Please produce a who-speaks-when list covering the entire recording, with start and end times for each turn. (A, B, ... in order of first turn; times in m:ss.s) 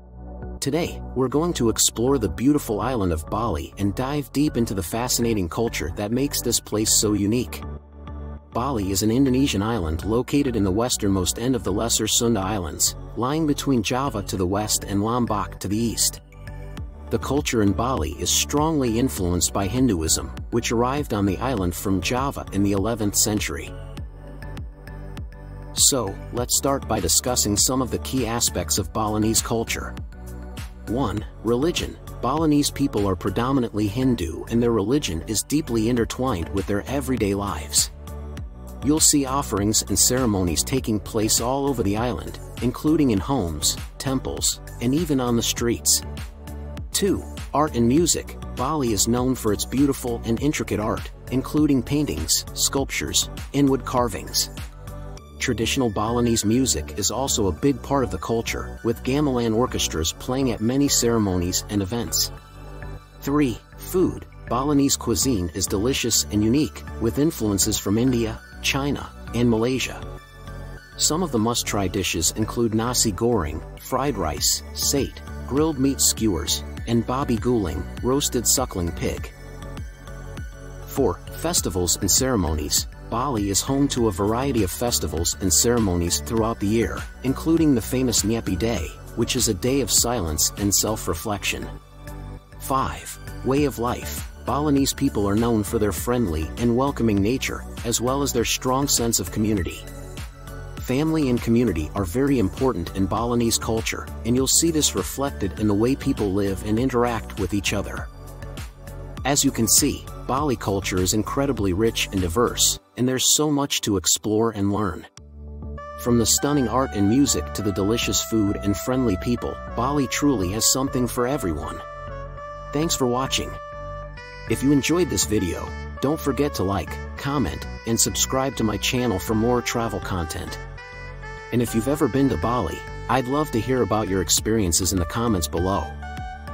0:00.6-0:07.6 A
0:08.5-0:16.2 A
0:17.1-0:23.7 A
0:25.7-0:30.0 A
0:30.9-0:37.9 A
0:38.8-0:46.0 A
0:46.9-0:54.5 A
0:55.4-1:02.3 A
1:03.2-1:10.0 A
1:11.0-1:19.3 A
1:20.8-1:31.7 A
1:32.6-1:39.9 A
1:40.8-1:48.1 A
1:49.2-1:55.1 A
1:56.0-2:01.8 A
2:02.7-2:03.6 A
2:04.5-2:10.6 A
2:11.5-2:16.0 A